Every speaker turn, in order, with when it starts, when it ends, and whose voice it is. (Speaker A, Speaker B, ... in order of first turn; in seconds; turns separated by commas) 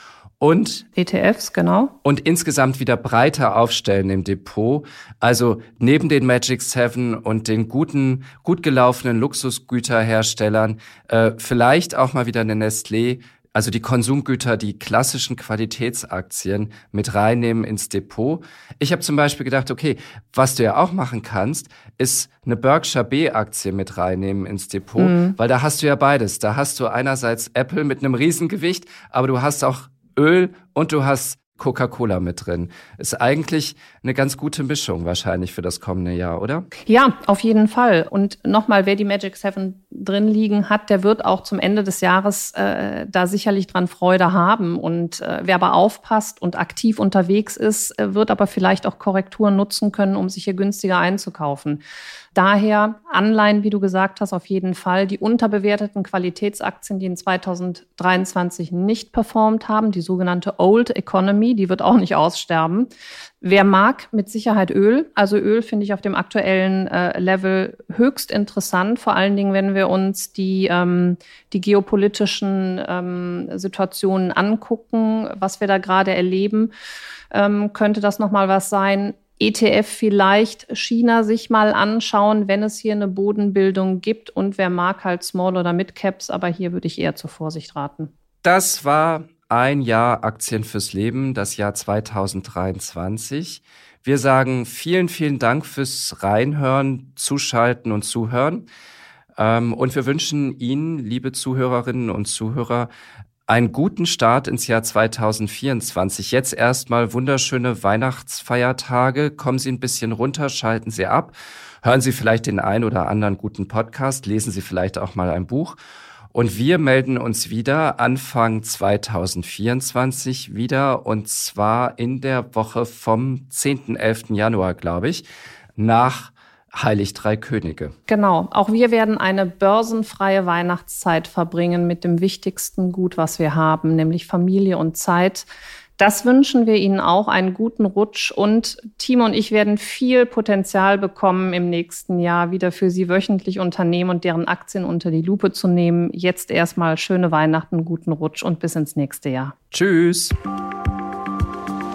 Speaker A: 0.4-0.8, Speaker B: 0.9-1.9, Speaker A: 2.0-36.7, Speaker B: 25.0-25.4, Speaker B: 36.9-51.8, Speaker B: 52.3-62.9, Speaker B: 63.4-76.7, Speaker B: 77.3-88.1, Speaker A: 88.4-98.6, Speaker A: 99.4-102.9, Speaker A: 103.5-115.8, Speaker A: 116.3-125.2, Speaker A: 125.8-127.9, Speaker B: 128.1-135.5, Speaker B: 136.0-149.6, Speaker A: 149.7-150.3